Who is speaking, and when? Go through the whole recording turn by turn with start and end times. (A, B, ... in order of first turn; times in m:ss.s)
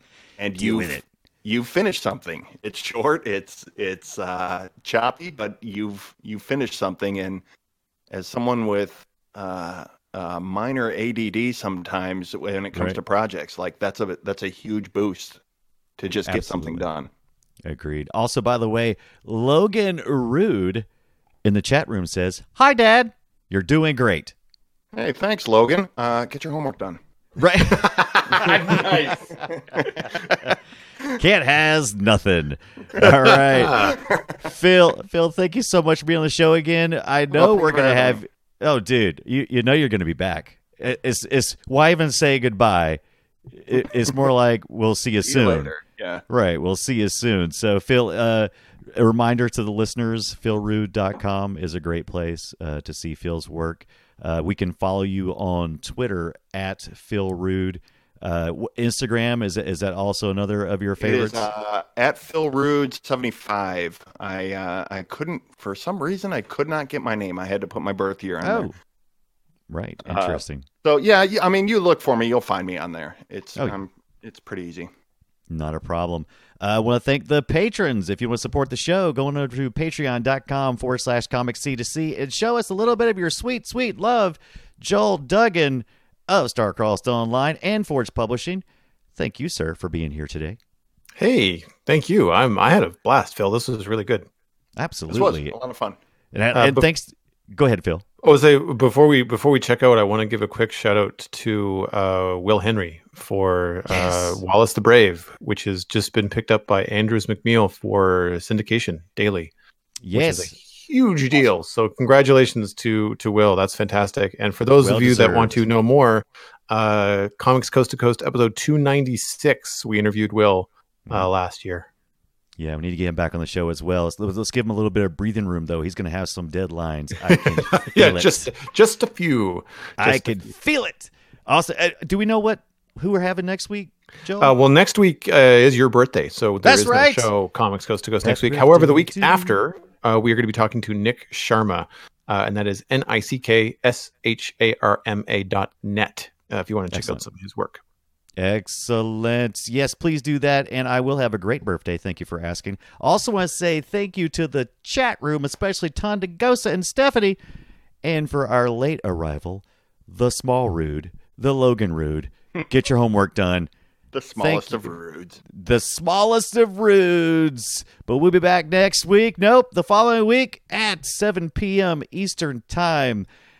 0:00.4-0:07.4 A
0:00.6-0:01.0 B
0:08.1-0:15.4 A
0:12.7-0:13.0 B
0:16.0-0:17.1 A
0:16.3-0:16.8 B
0:17.6-0:20.9 B
0:21.4-0:24.3 B
0:25.0-0:27.0 A
0:27.4-0:28.9 B
0:27.7-0:29.2 C
0:28.5-0:30.4 A
0:31.2-0:43.0 B
0:33.0-0:34.4 A
0:33.0-0:34.0 C
0:37.3-0:38.2 A
0:43.5-0:45.7 B
0:45.2-0:46.2 A
0:46.3-1:01.5 B
1:01.0-1:08.7 A
1:08.4-1:08.7 B
1:09.7-1:10.6 B
1:10.1-1:14.9 A
1:15.5-1:28.6 B
1:29.2-1:30.6 B
1:31.2-1:34.3 C
1:34.8-1:35.6 B
1:35.1-1:36.0 A
1:36.3-1:38.1 B
1:36.5-1:36.9 C
1:38.2-1:49.5 C
1:43.9-1:44.4 B
1:50.0-1:50.5 B
1:50.1-2:01.9 C
1:54.8-1:55.6 B
2:02.6-2:08.5 B
2:07.4-2:10.4 C
2:10.0-2:14.5 B
2:14.4-2:27.8 C
2:16.6-2:17.3 B
2:18.2-2:19.5 B
2:26.9-2:27.2 B
2:28.4-2:37.4 B
2:38.0-2:43.7 B
2:44.1-2:45.4 A
2:44.4-2:44.9 B
2:45.5-2:53.3 B